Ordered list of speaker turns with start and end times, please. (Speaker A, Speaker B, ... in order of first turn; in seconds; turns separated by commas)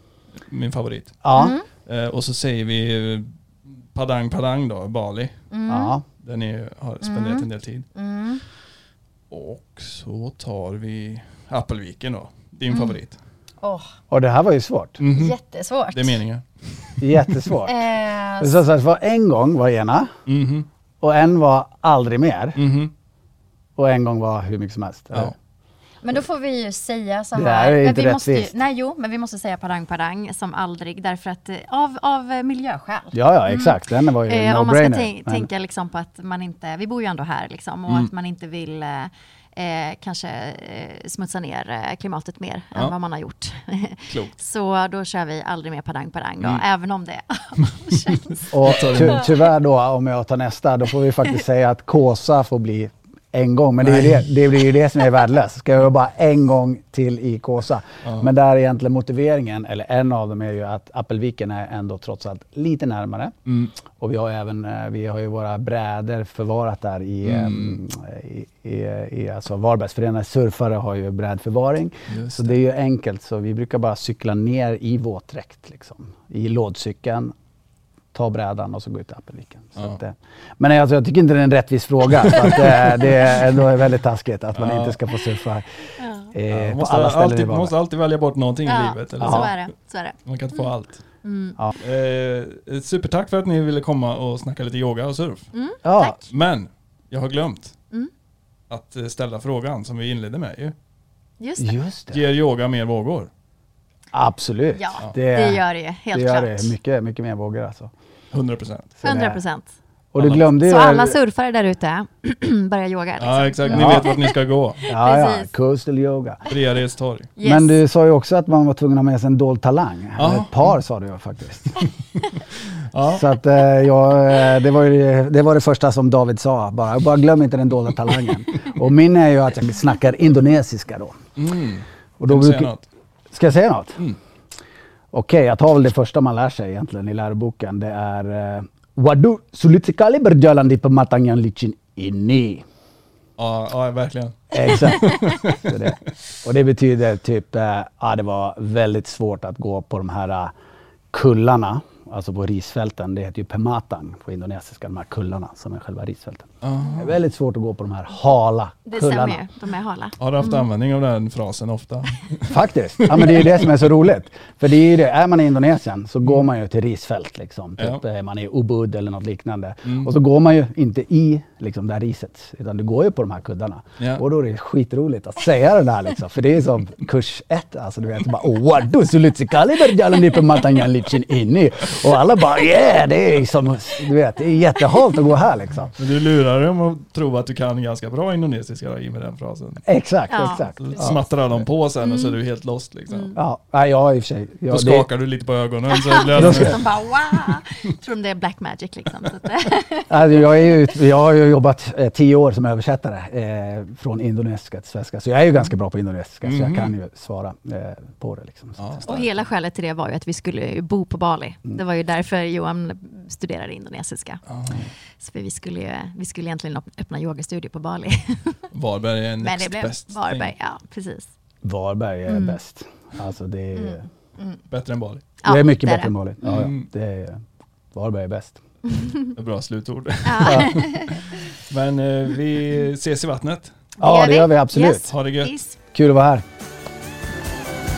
Speaker A: 0.4-1.2, Speaker B: 1.2-1.6, Speaker C: 1.3-1.7, Speaker A: 1.7-5.4, Speaker C: 5.5-5.9, Speaker B: 5.7-6.0, Speaker A: 6.2-7.9, Speaker C: 7.0-8.4, Speaker A: 9.3-13.2, Speaker C: 12.7-13.0, Speaker C: 13.6-13.9, Speaker B: 14.1-15.0, Speaker A: 15.0-15.4, Speaker C: 15.1-16.2, Speaker A: 15.9-17.4, Speaker B: 17.0-17.9, Speaker C: 17.6-18.6, Speaker B: 18.4-20.1, Speaker A: 20.3-20.7, Speaker B: 21.0-22.6, Speaker A: 22.6-22.9, Speaker B: 23.8-25.3, Speaker C: 26.0-49.3, Speaker B: 27.4-28.5, Speaker B: 33.1-35.5, Speaker A: 44.1-44.4, Speaker B: 48.5-77.3, Speaker A: 48.6-49.3, Speaker A: 53.8-54.2, Speaker A: 58.0-58.3, Speaker A: 63.5-63.7, Speaker A: 67.2-67.8, Speaker A: 72.1-72.6, Speaker B: 78.1-87.7, Speaker A: 84.5-85.0, Speaker C: 86.0-86.3, Speaker A: 86.5-89.7, Speaker C: 88.7-90.2, Speaker B: 89.2-89.5, Speaker A: 90.2-91.0, Speaker C: 91.2-91.6, Speaker A: 91.8-95.5, Speaker C: 95.5-96.2, Speaker B: 95.8-96.2, Speaker A: 96.3-97.8, Speaker A: 98.7-100.7, Speaker C: 101.4-101.8, Speaker B: 101.6-102.2, Speaker A: 102.1-103.3, Speaker B: 104.1-107.9, Speaker C: 104.8-106.7, Speaker A: 108.3-109.0, Speaker B: 109.0-109.4, Speaker C: 109.0-109.7, Speaker B: 110.1-111.2, Speaker A: 110.2-110.5, Speaker C: 110.6-115.5, Speaker A: 113.2-114.8, Speaker B: 113.7-114.1, Speaker B: 114.9-116.5, Speaker A: 116.5-117.3, Speaker C: 117.4-117.8, Speaker B: 117.4-121.9, Speaker A: 120.2-120.7, Speaker A: 121.8-123.2, Speaker B: 123.1-131.3, Speaker A: 131.4-132.9, Speaker B: 132.2-132.7, Speaker B: 133.3-134.0, Speaker B: 135.1-142.7, Speaker A: 143.4-145.9, Speaker B: 144.5-150.5, Speaker B: 151.1-159.4, Speaker A: 156.6-157.2, Speaker C: 158.9-160.7, Speaker A: 160.2-163.7, Speaker B: 162.5-185.9, Speaker A: 169.9-170.1, Speaker A: 186.0-189.8, Speaker B: 189.9-191.2, Speaker C: 190.3-190.9, Speaker A: 190.8-193.4, Speaker C: 192.0-192.4, Speaker C: 193.1-193.4, Speaker B: 193.4-195.1, Speaker A: 194.7-196.8, Speaker C: 195.9-200.3, Speaker B: 196.3-196.8, Speaker B: 200.1-209.3, Speaker A: 206.4-206.9, Speaker A: 208.8-209.1, Speaker C: 209.1-214.4, Speaker A: 214.4-214.9, Speaker C: 215.2-218.7, Speaker A: 218.7-220.5, Speaker C: 219.4-221.3, Speaker B: 221.6-224.1, Speaker C: 222.3-222.6, Speaker C: 223.7-224.6, Speaker A: 224.7-225.2, Speaker C: 225.4-226.1, Speaker B: 225.4-228.6, Speaker A: 226.4-226.9, Speaker C: 228.9-229.3, Speaker A: 229.3-233.7, Speaker C: 230.2-231.2, Speaker B: 230.4-230.8, Speaker B: 234.0-235.2, Speaker C: 234.0-235.8, Speaker A: 235.1-235.5, Speaker B: 235.9-236.4